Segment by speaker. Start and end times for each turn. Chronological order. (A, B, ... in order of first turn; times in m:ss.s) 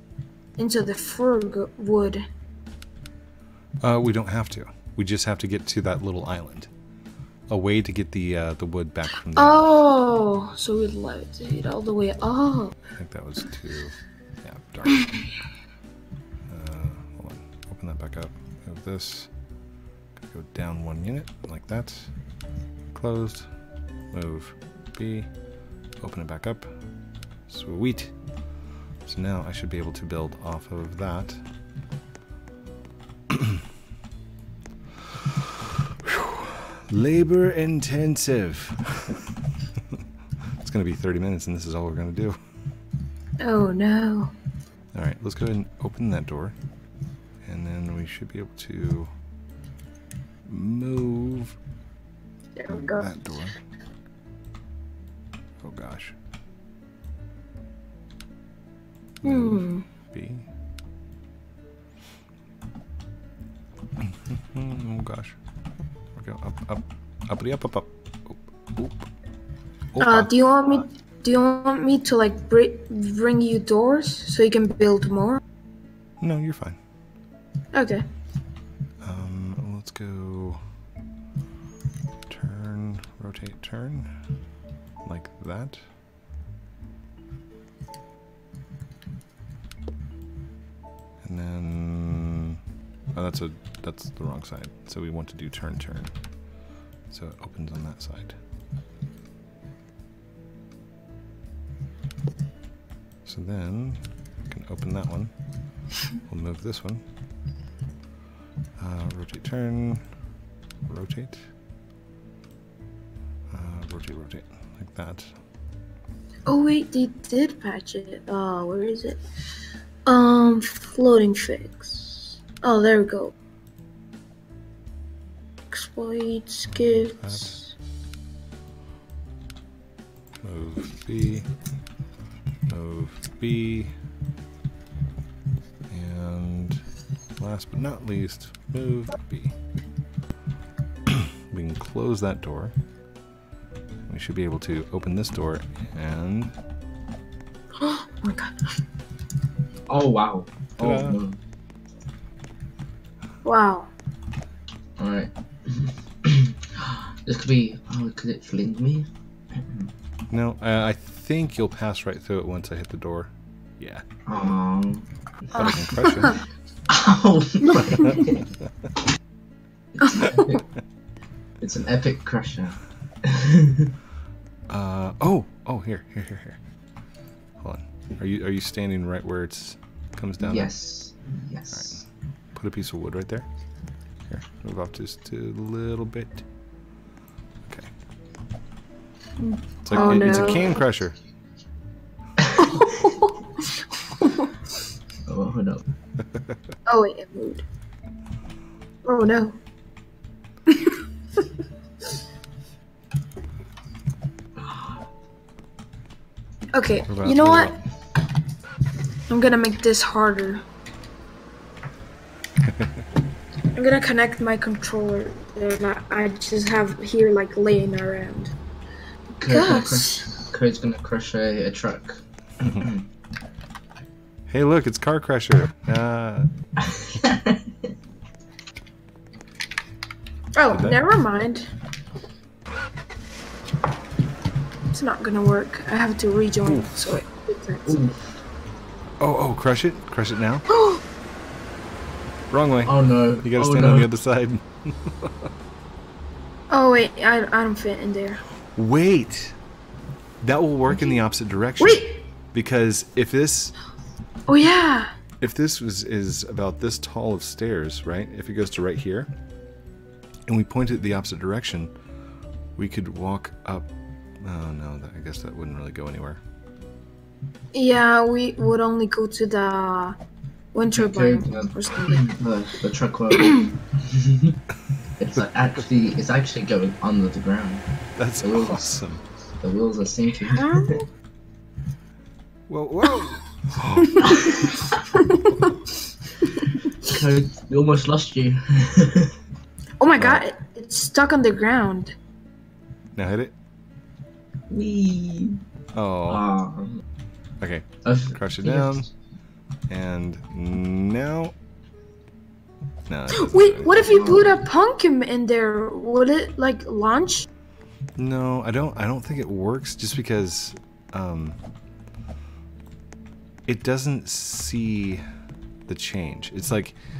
0:00.6-0:02.2 A
0:03.8-0:06.7 B
0:07.5-0:09.6 B
0:09.3-0:12.7 A
0:13.0-0:15.1 B
0:16.5-0:19.3 B
0:20.2-0:22.1 B
0:22.9-0:23.5 B
0:24.1-0:25.3 B
0:26.0-0:26.7 B
0:27.5-0:28.1 B
0:29.0-0:31.4 B
0:33.3-0:33.6 B
0:35.1-0:40.0 B
0:40.6-0:42.4 B
0:43.4-0:44.3 A
0:44.9-0:46.5 B
0:47.4-0:49.1 B
0:50.4-0:51.6 B
0:52.6-0:53.1 A
0:52.7-0:53.6 B
0:55.6-0:56.1 B
0:59.2-1:00.5 B
0:59.2-0:59.8 A
1:04.0-1:05.4 B
1:06.1-1:09.1 B
1:09.9-1:10.8 B
1:10.0-1:15.4 A
1:16.2-1:16.8 B
1:17.7-1:18.0 A
1:19.0-1:20.6 B
1:22.3-1:24.1 B
1:25.0-1:25.8 B
1:31.2-1:32.6 B
1:33.1-1:36.1 B
1:37.1-1:38.4 B
1:43.2-1:45.3 B
1:46.2-1:47.0 B
1:48.8-1:50.0 B
1:50.9-1:51.5 B
1:53.5-1:55.3 B
1:56.5-1:59.2 A
2:00.0-2:03.3 A
2:05.7-2:07.7 A
2:06.7-2:07.6 B
2:10.4-2:11.5 B
2:12.6-2:13.9 B
2:15.9-2:16.8 B
2:17.4-2:19.6 B
2:21.0-2:22.7 B
2:24.0-2:26.5 B
2:27.8-2:28.7 A
2:29.9-2:31.4 C
2:30.8-2:31.2 B
2:33.4-2:33.9 A
2:35.0-2:39.9 C
2:40.3-2:44.0 B
2:44.2-2:45.1 C
2:45.5-2:46.4 A
2:45.5-2:46.4 B
2:46.9-2:48.5 C
2:47.6-2:48.2 A
2:50.0-2:50.6 C
2:50.0-2:50.5 A
2:51.6-2:53.9 C
2:54.7-2:56.6 B
2:57.6-3:00.7 B
3:00.4-3:02.0 C
3:01.7-3:03.5 B
3:04.3-3:06.4 B
3:07.6-3:07.9 B
3:09.4-3:10.8 A
3:09.8-3:11.2 B
3:12.4-3:12.9 C
3:12.6-3:14.5 A
3:15.2-3:15.8 C
3:16.2-3:16.6 B
3:16.8-3:17.6 A
3:19.0-3:19.6 A
3:20.7-3:21.0 A
3:26.7-3:27.7 A
3:27.1-3:27.8 B
3:29.3-3:30.6 A
3:32.6-3:33.0 B
3:33.7-3:38.5 A
3:39.4-3:43.0 C
3:39.5-3:40.3 A
3:44.5-3:46.5 B
3:46.8-3:47.9 C
3:50.5-3:51.7 A
3:50.7-3:51.0 B
3:54.9-3:58.0 A
3:56.6-3:56.9 B
3:57.9-3:58.1 C
3:59.2-4:00.6 B
4:00.7-4:01.0 A
4:02.5-4:05.5 B
4:02.8-4:04.1 C
4:06.7-4:08.4 A
4:08.7-4:09.6 B
4:10.4-4:13.7 B
4:11.8-4:12.2 A
4:14.5-4:15.1 A
4:15.4-4:19.3 B
4:20.5-4:21.9 B
4:22.8-4:23.9 B
4:24.4-4:26.4 B
4:27.7-4:30.2 A
4:30.7-4:32.3 A
4:30.9-4:34.6 C
4:33.4-4:33.7 A
4:35.2-4:37.9 C
4:38.2-4:39.2 B
4:38.4-4:38.9 C
4:39.6-4:41.0 C
4:40.5-4:41.0 A
4:42.7-4:44.4 B
4:44.0-4:44.5 A
4:45.1-4:45.7 A
4:46.4-4:47.1 A
4:47.0-4:49.3 C
4:50.0-4:52.1 A
4:50.2-4:50.4 B
4:53.1-4:53.5 B
4:54.7-4:55.6 C
4:55.9-4:56.4 B
4:56.3-4:57.0 C
4:57.6-4:59.1 B
4:58.0-4:59.1 C
4:59.9-5:01.5 B
5:03.1-5:04.4 B
5:03.3-5:07.4 A
5:04.0-5:04.5 C
5:08.2-5:11.6 B
5:13.6-5:15.2 B
5:15.9-5:17.0 B